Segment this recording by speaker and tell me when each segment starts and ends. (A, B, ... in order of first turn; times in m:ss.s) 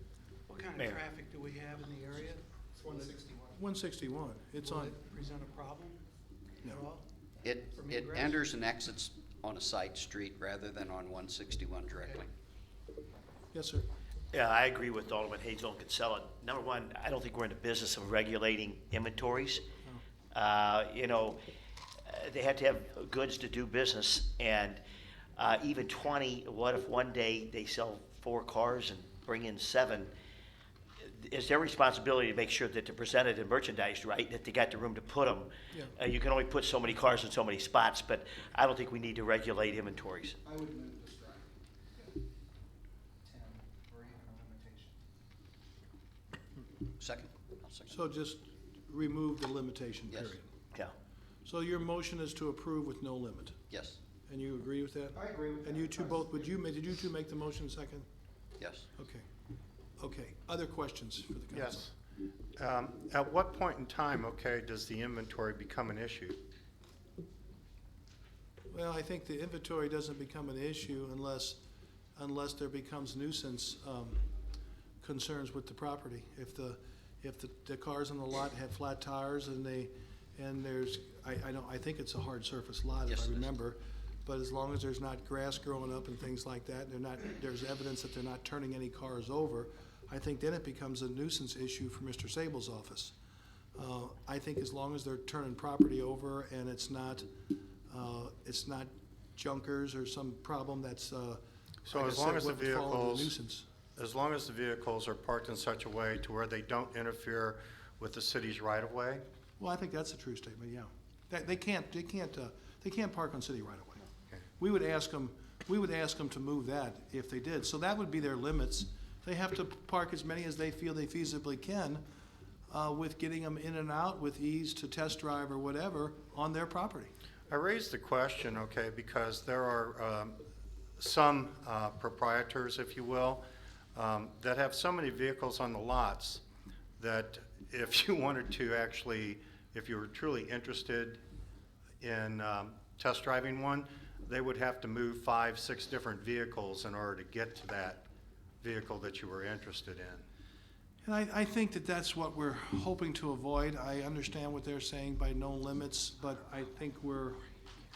0:00.5-0:03.1 A
0:02.7-0:03.6 B
0:03.6-0:05.0 C
0:04.6-0:06.0 A
0:06.6-0:07.0 A
0:07.4-0:12.3 D
0:07.7-0:08.5 A
0:11.9-0:12.2 A
0:13.5-0:13.8 C
0:14.3-0:19.6 E
0:20.3-0:21.4 E
0:22.1-0:24.8 E
0:25.4-0:30.1 E
0:31.2-0:40.4 E
0:40.4-0:42.2 B
0:43.2-0:44.9 B
0:47.0-0:48.0 D
0:47.9-0:50.4 C
0:50.1-0:50.3 D
0:51.4-0:53.6 C
0:53.7-0:54.0 D
0:54.3-0:58.0 C
0:55.1-0:56.5 B
0:58.6-0:58.9 D
0:59.0-0:59.2 C
1:00.0-1:01.9 C
1:01.5-1:01.9 F
1:02.6-1:06.4 F
1:08.7-1:11.6 C
1:12.2-1:14.3 C
1:15.0-1:33.1 C
1:23.1-1:23.5 D
1:33.7-1:37.3 C
1:37.9-1:43.6 C
1:41.8-1:43.3 F
1:44.0-1:49.2 F
1:49.6-1:54.0 C
1:54.6-2:02.0 C
2:02.7-2:07.1 C
2:07.5-2:10.4 F
2:11.0-2:13.4 F
2:13.9-2:16.4 F
2:17.0-2:21.2 F
2:22.0-2:28.0 F
2:28.6-2:30.2 F
2:31.0-2:37.4 C